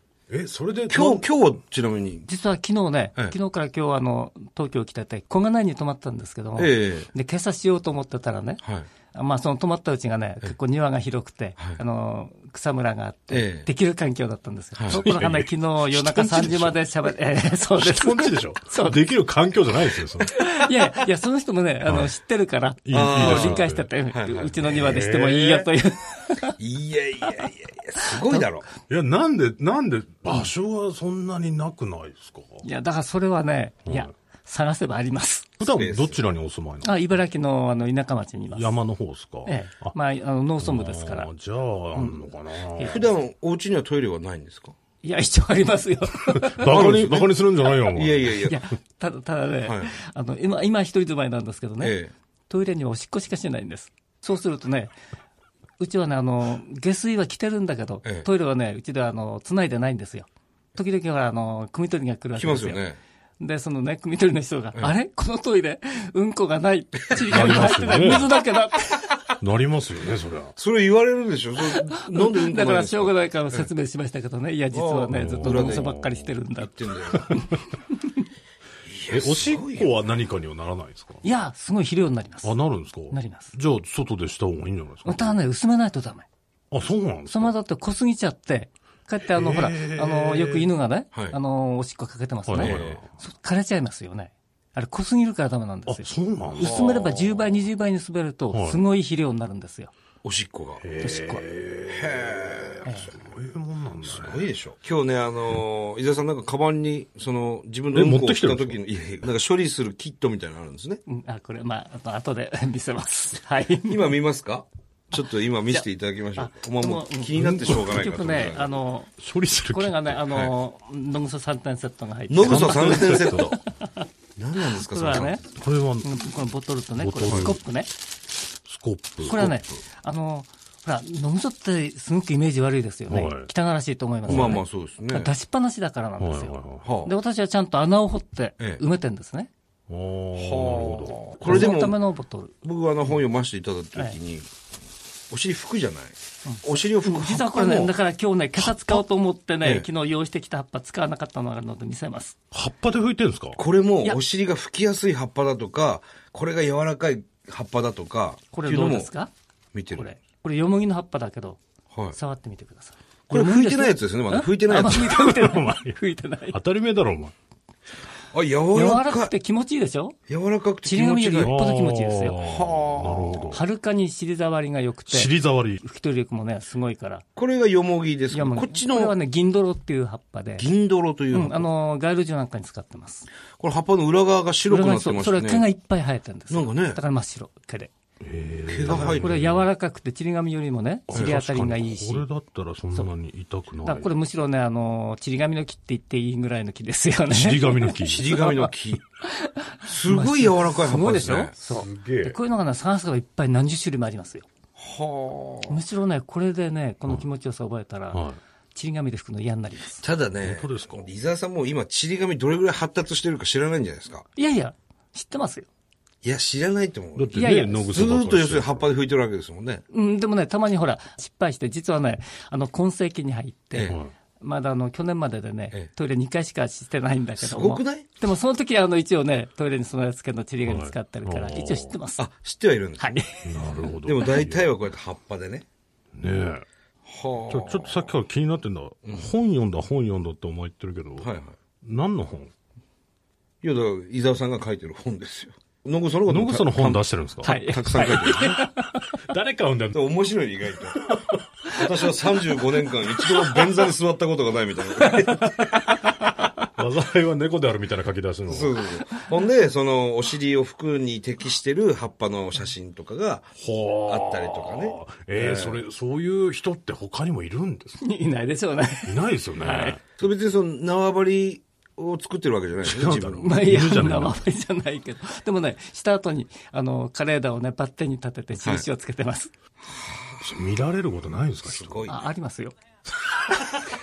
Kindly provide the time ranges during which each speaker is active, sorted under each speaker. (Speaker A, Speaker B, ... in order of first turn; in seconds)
Speaker A: 0.3-1.3, 14.9-16.8, 17.8-20.3, 21.9-22.1, 22.9-23.9, 24.6-25.6, 28.9-32.6, 35.6-37.2, 38.5-39.9, 40.6-43.0, 46.5-48.4, 67.3-68.3, 69.4-70.5, 75.1-76.3, 79.1-81.2, 82.4-85.4, 86.7-87.5, 89.3-90.7, 92.5-93.1, 95.9-97.2, 98.5-98.8, 100.8-104.5, 107.9-108.8, 117.3-118.1, 119.2-120.2, 122.4-123.6, 125.6-126.2, 127.0-127.6, 128.7-129.6, 133.1-133.5, 134.2-134.6, 136.2-136.9, 139.9-141.6, 148.6-149.0, 152.5-153.6, 164.8-167.3, 171.4-173.6, 175.1-175.8, 188.2-189.7, 191.1-194.1, 197.3-198.5, 201.7-202.4, 208.1-208.4, 210.4-211.1, 217.2-218.9, 223.9-224.1, 230.7-232.0, 233.4-234.7, 236.2-236.7, 237.5-241.3, 241.8-242.5, 246.3-248.7, 249.3-250.0, 251.1-251.5, 253.1-253.7, 256.8-258.8, 263.6-268.0, 269.1-270.0, 272.8-274.4, 280.4-282.1
Speaker B: 0.9-2.3, 6.6-7.1, 8.6-8.9, 13.3-13.7, 14.8-15.0, 22.9-25.6, 26.6-28.7, 35.6-36.2, 42.8-44.8, 46.6-47.3, 47.9-48.6, 49.6-50.0, 51.8-52.1, 62.4-63.0, 67.1-67.6, 70.6-73.7, 74.7-75.9, 76.7-77.3, 78.9-79.9, 91.1-91.4, 92.5-93.0, 96.6-97.2, 100.2-100.8, 101.9-103.1, 104.0-111.0, 113.9-118.7, 122.3-123.6, 124.4-125.5, 127.3-127.5, 134.3-135.3, 136.8-137.1, 140.4-142.0, 142.6-144.5, 145.3-147.9, 149.6-149.9, 153.6-159.1, 159.7-160.1, 163.3-165.2, 168.3-169.3, 170.3-171.5, 172.4-173.6, 177.4-179.2, 180.6-181.7, 183.6-185.7, 186.5-187.0, 188.7-189.4, 198.0-199.1, 199.8-201.5, 204.8-205.8, 210.0-214.3, 216.2-219.8, 223.7-224.0, 227.4-228.1, 232.2-235.7, 237.1-238.1, 241.2-241.6, 243.6-248.6, 249.9-255.7, 258.5-263.5, 264.0-265.8, 270.2-273.5, 280.1-280.4, 281.6-282.2
Speaker C: 2.3-8.6, 9.1-19.1, 20.3-26.6, 28.1-28.4, 32.6-35.5, 36.8-38.8, 39.5-41.3, 41.9-43.1, 45.0-46.9, 48.4-52.0, 52.5-54.9, 55.8-62.9, 63.4-69.1, 71.8-77.7, 81.2-82.6, 83.1-83.5, 85.0-86.3, 87.3-99.9, 101.0-101.4, 111.1-114.2, 116.4-119.2, 119.7-124.1, 124.7-125.5, 126.0-127.9, 129.2-139.5, 141.4-142.5, 146.5-152.4, 158.5-159.3, 159.9-161.6, 162.1-166.6, 168.7-170.2, 170.8-172.4, 173.5-177.2, 178.3-180.7, 181.3-183.3, 184.7-187.9, 188.9-192.3, 193.8-198.7, 199.4-204.4, 205.7-208.2, 208.8-210.0, 214.4-215.7, 217.3-217.9, 219.9-232.2, 233.0-233.6, 247.4-249.1, 255.1-255.9, 268.0-270.0, 273.4-279.5, 282.1-282.8